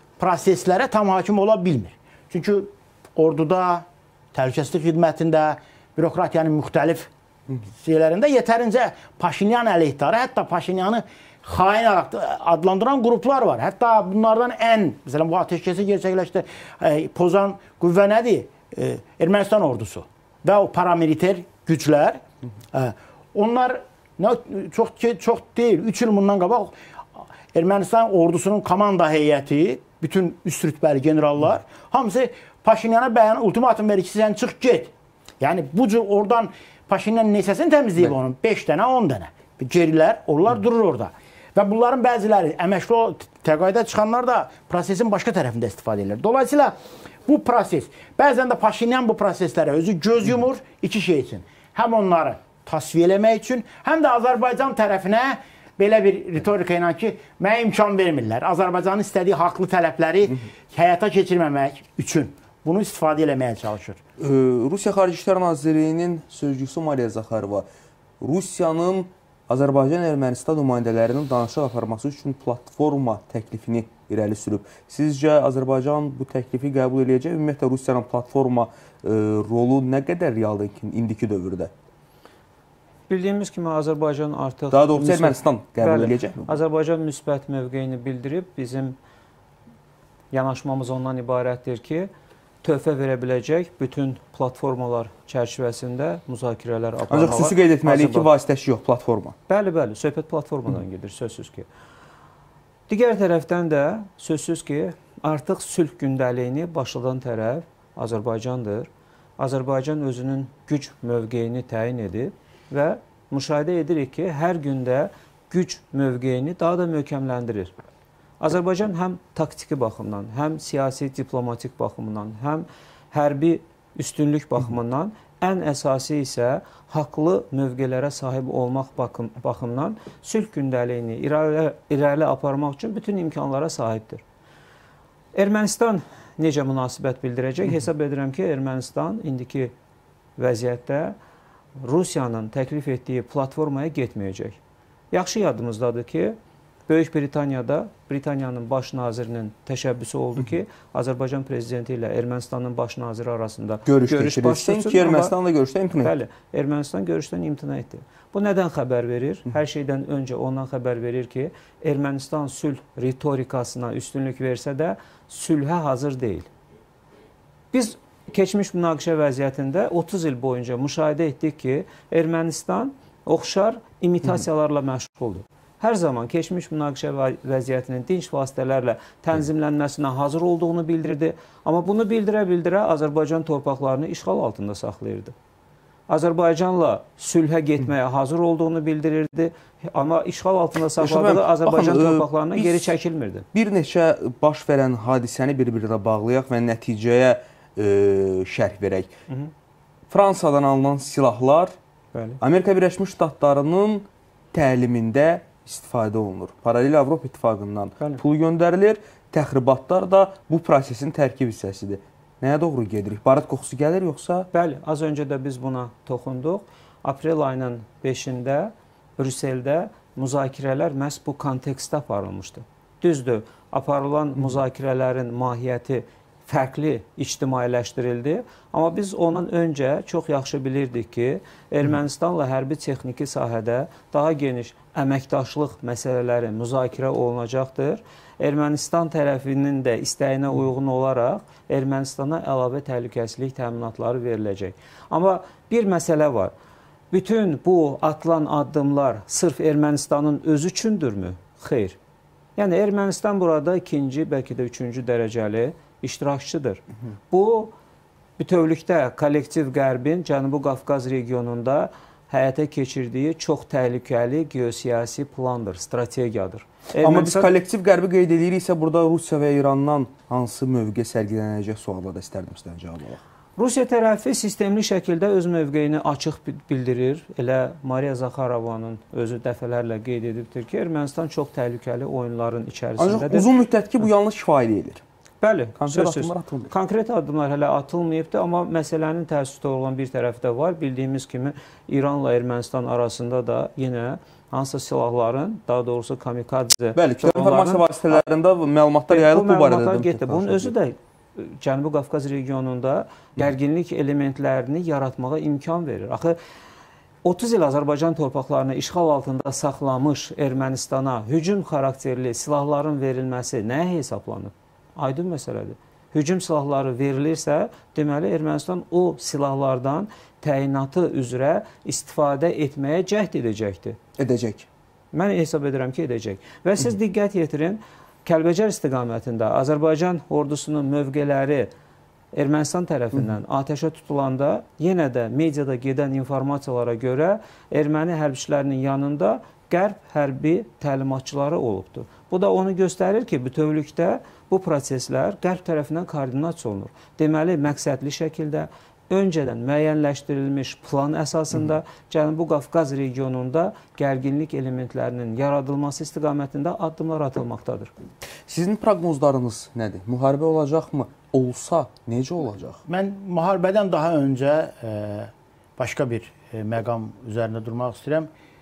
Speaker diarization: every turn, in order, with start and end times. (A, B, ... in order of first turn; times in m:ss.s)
0:00.2-0:22.2 A
0:22.7-0:26.7 A
0:27.5-0:46.7 A
0:47.2-1:04.0 A
1:04.2-1:07.6 B
1:08.2-1:21.7 B
1:23.1-1:29.0 C
1:24.7-1:26.5 B
1:30.3-1:32.1 C
1:32.6-1:38.3 C
1:37.1-1:39.3 B
1:39.5-1:41.7 C
1:42.9-1:48.9 C
1:49.4-1:57.7 C
1:58.4-2:14.2 C
2:15.3-2:19.7 C
2:20.4-2:21.2 C
2:21.8-2:24.6 C
2:25.1-2:26.4 C
2:26.9-2:35.3 C
2:33.8-2:36.1 B
2:36.0-2:46.5 C
2:47.7-3:05.3 C
3:06.1-3:13.4 C
3:11.0-3:12.9 B
3:13.5-3:19.1 B
3:20.1-3:21.7 B
3:22.1-3:22.4 C
3:22.4-3:34.5 B
3:34.5-4:06.5 C
4:07.1-4:12.0 C
4:12.6-4:17.7 C
4:18.4-4:27.5 C
4:27.0-4:33.2 B
4:33.6-4:43.5 C
4:43.0-4:45.0 B
4:45.4-4:58.2 C
4:45.8-4:46.7 B
4:57.0-5:00.7 B
4:59.1-5:06.4 C
5:07.2-5:24.0 C
5:24.2-5:24.7 B
5:25.1-5:31.7 C
5:32.3-5:57.9 C
5:58.5-6:02.8 B
6:02.9-6:08.3 A